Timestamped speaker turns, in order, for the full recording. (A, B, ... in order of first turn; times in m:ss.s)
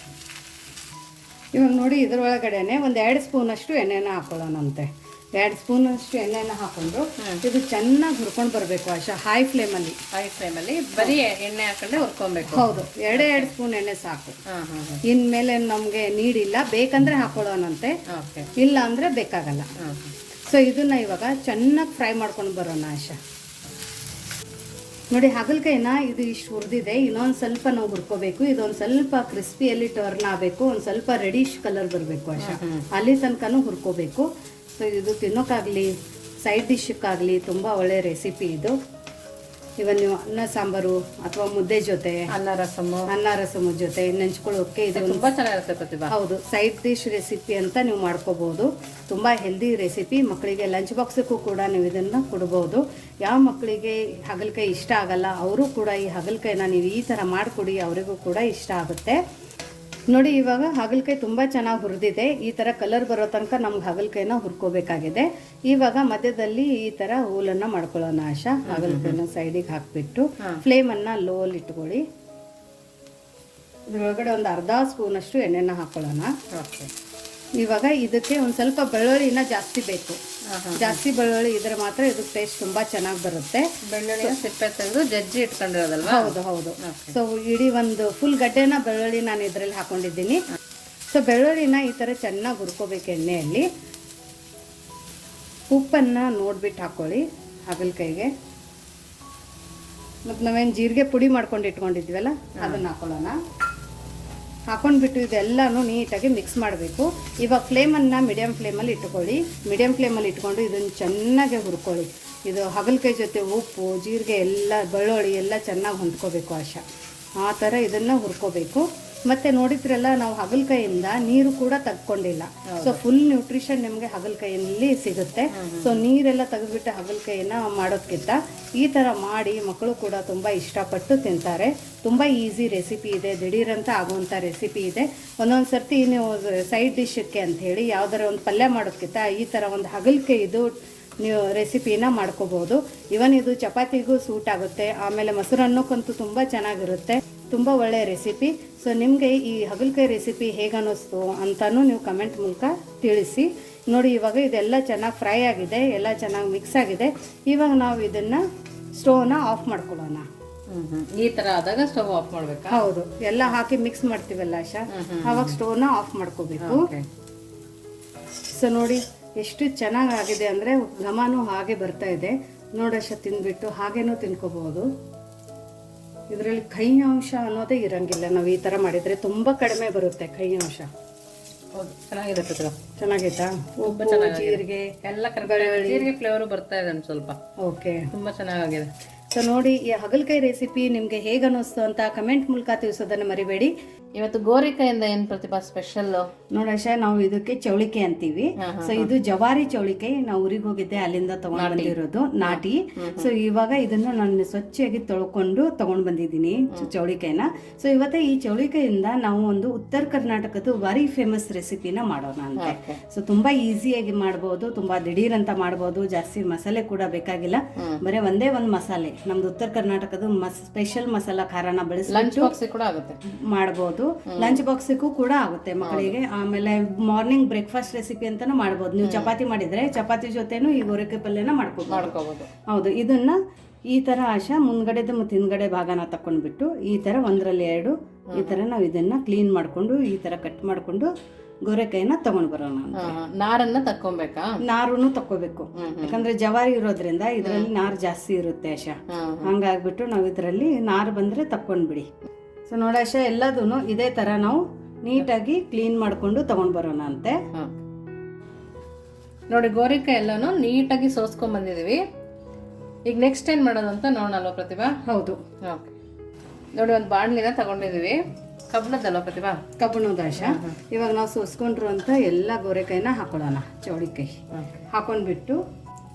0:01.6-0:10.0 A
0:10.1-0:13.5 B
0:12.4-0:14.4 A
0:14.5-0:15.0 B
0:15.1-0:17.9 A
0:18.1-0:18.5 B
0:18.6-0:19.7 A
0:19.8-0:20.1 B
0:20.5-0:23.2 A
0:25.1-0:38.8 A
0:32.4-0:32.8 B
0:39.8-0:42.3 A
0:42.3-0:43.1 B
0:43.1-0:45.2 A
0:45.0-0:46.2 B
0:46.1-0:59.2 A
1:00.1-1:12.0 A
1:08.7-1:09.2 B
1:13.9-1:16.3 A
1:16.5-1:16.9 B
1:17.6-1:20.2 A
1:20.5-1:21.0 B
1:20.8-1:23.6 A
1:23.9-1:27.1 B
1:26.0-1:30.4 A
1:31.1-1:33.7 A
1:35.7-1:38.3 A
1:40.3-1:43.4 A
1:42.6-1:42.8 B
1:44.7-1:56.8 A
1:57.4-2:38.4 A
2:02.7-2:03.0 B
2:05.5-2:06.0 B
2:39.0-2:40.3 A
2:40.7-2:42.9 B
2:42.7-2:46.9 A
2:44.9-2:45.6 B
2:46.6-2:47.0 B
2:48.6-2:54.9 A
2:56.3-3:00.9 A
3:01.8-3:02.8 B
3:03.0-3:04.9 A
3:03.8-3:07.4 B
3:05.4-3:06.1 A
3:07.6-3:08.0 A
3:08.1-3:08.9 B
3:09.3-3:13.7 A
3:14.2-3:16.3 B
3:16.5-3:42.5 A
3:18.6-3:19.1 B
3:21.6-3:23.3 B
3:32.6-3:33.0 B
3:42.1-3:43.2 B
3:43.5-3:52.1 A
3:44.3-3:44.6 B
3:45.8-3:46.1 B
3:49.0-3:49.3 B
3:51.9-3:52.5 B
3:52.7-3:53.4 A
3:53.9-4:01.1 A
3:58.3-3:58.6 B
4:01.7-4:03.2 A
4:03.0-4:04.5 B
4:04.6-4:12.1 A
4:05.8-4:06.2 B
4:07.4-4:07.7 B
4:09.1-4:09.5 B
4:12.7-4:17.4 A
4:19.5-4:22.0 B
4:23.1-4:25.0 B
4:25.1-4:25.4 A
4:26.8-4:29.6 B
4:29.8-4:34.3 A
4:30.4-4:30.8 B
4:34.9-4:35.6 A